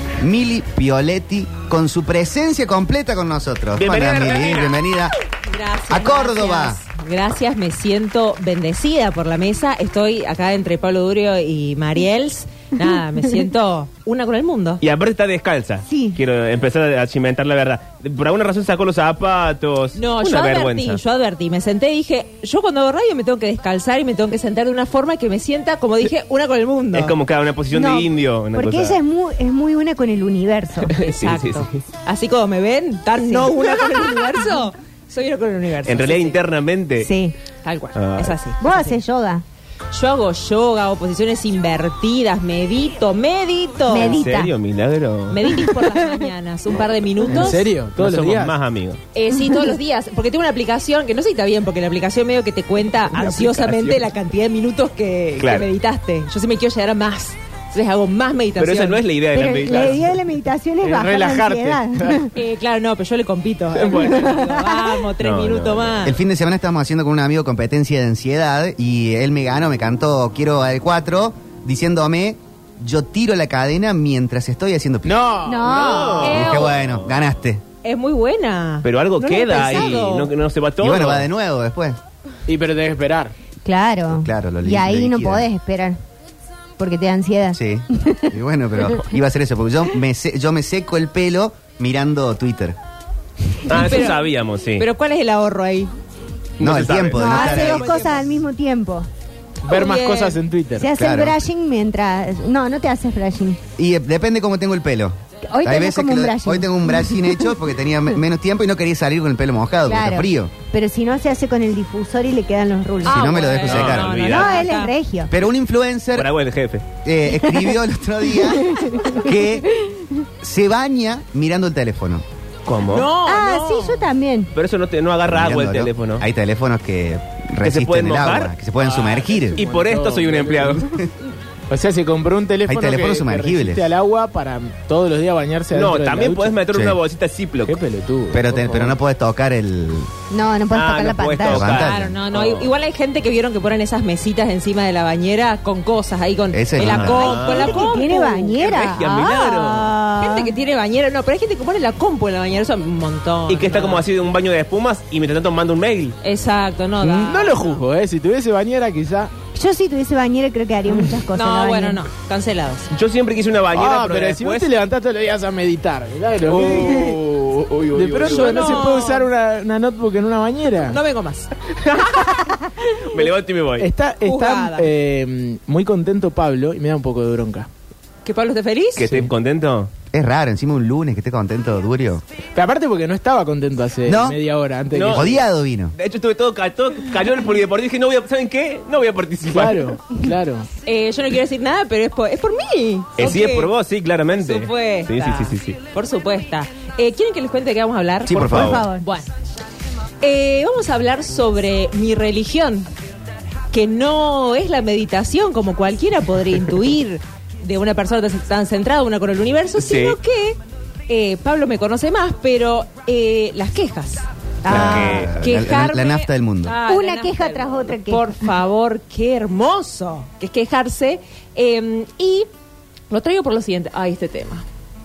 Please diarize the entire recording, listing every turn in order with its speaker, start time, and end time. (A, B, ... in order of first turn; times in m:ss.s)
0:00.2-0:05.1 A
0:03.8-0:05.0 B
0:05.4-0:14.8 C
0:05.9-0:06.8 A
0:14.8-0:21.0 B
0:15.9-0:16.2 D
0:20.0-0:27.1 C
0:26.9-0:29.0 B
0:27.7-0:30.9 D
0:30.9-0:31.7 B
0:31.0-0:36.4 C
0:33.2-0:34.5 D
0:35.8-0:37.1 B
0:37.0-0:37.4 D
0:37.6-0:39.0 C
0:38.0-0:38.4 B
0:38.6-0:39.4 D
0:39.9-0:44.3 C
0:43.9-0:44.5 D
0:44.0-0:45.5 B
0:45.3-0:47.6 C
0:47.3-0:48.6 E
0:48.0-0:49.0 B
0:49.1-0:59.0 C
0:53.1-0:54.0 B
0:55.4-0:55.7 B
0:58.6-1:00.2 B
0:59.3-1:02.3 D
1:00.8-1:02.3 E
1:02.4-1:06.2 C
1:03.8-1:04.2 E
1:04.2-1:04.9 D
1:05.2-1:05.9 B
1:06.0-1:15.3 A
1:15.0-1:15.7 E
1:15.4-1:16.4 D
1:15.6-1:17.1 B
1:16.2-1:16.7 C
1:16.3-1:17.6 A
1:17.8-1:20.3 C
1:18.8-1:21.3 B
1:19.6-1:19.9 D
1:20.8-1:22.0 A
1:22.5-1:23.3 E
1:23.6-1:26.0 D
1:24.1-1:25.5 A
1:26.8-1:28.3 D
1:27.5-1:32.8 A
1:33.7-1:34.9 B
1:33.7-1:34.2 C
1:34.8-1:35.9 C
1:36.6-1:37.7 B
1:36.6-1:37.9 A
1:37.1-1:39.1 D
1:37.2-1:38.2 C
1:39.6-1:40.9 E
1:39.7-1:40.4 C
1:40.8-1:43.6 D
1:41.0-1:41.4 A
1:43.8-1:50.5 A
1:45.5-1:47.5 D
1:49.9-1:53.2 D
1:53.0-1:55.0 C
1:53.1-1:54.2 A
1:53.6-1:54.7 B
1:54.2-1:55.3 D
1:55.3-1:56.3 A
1:56.2-1:56.9 B
1:57.0-1:59.7 A
1:58.4-1:59.3 D
2:00.4-2:02.2 A
2:02.7-2:03.1 B
2:02.9-2:04.1 C
2:03.2-2:04.5 D
2:04.6-2:06.2 B
2:05.3-2:09.6 A
2:07.6-2:08.6 B
2:08.8-2:10.8 E
2:09.6-2:10.9 B
2:11.7-2:16.6 E
2:12.7-2:13.8 A
2:15.7-2:17.8 B
2:16.7-2:17.0 A
2:17.7-2:19.0 E
2:18.3-2:20.1 A
2:20.3-2:21.7 D
2:20.7-2:22.7 B
2:21.5-2:22.2 A
2:21.7-2:28.6 C
2:26.5-2:27.3 A
2:26.9-2:27.8 B
2:26.9-2:30.5 D
2:28.5-2:30.0 B
2:29.2-2:34.0 C
2:33.5-2:36.2 B
2:36.2-2:37.8 C
2:37.0-2:39.3 E
2:39.6-2:42.0 D
2:41.3-2:42.9 C
2:42.9-2:44.7 B
2:43.7-2:47.2 E
2:46.4-2:48.8 B
2:47.9-2:51.0 E
2:48.2-2:49.3 C
2:50.9-2:51.5 C
2:51.8-2:52.2 B
2:53.1-2:53.9 B
2:53.8-2:57.7 E
2:54.2-2:54.9 C
2:58.2-2:59.1 C
2:59.0-2:59.9 B
3:00.1-3:02.2 A
3:02.6-3:05.4 E
3:04.1-3:04.4 A
3:04.9-3:05.3 B
3:05.1-3:05.9 A
3:06.0-3:09.9 B
3:09.5-3:10.7 E
3:10.9-3:13.7 C
3:13.2-3:15.8 B
3:14.4-3:19.3 C
3:18.3-3:18.8 A
3:18.3-3:18.8 B
3:18.4-3:19.0 D
3:20.2-3:22.9 C
3:23.7-3:34.3 C
3:29.8-3:30.2 B
3:34.6-3:35.3 D
3:34.7-3:35.4 B
3:34.7-3:36.8 A
3:34.9-3:42.5 C
3:36.8-3:38.4 D
3:43.1-3:44.6 C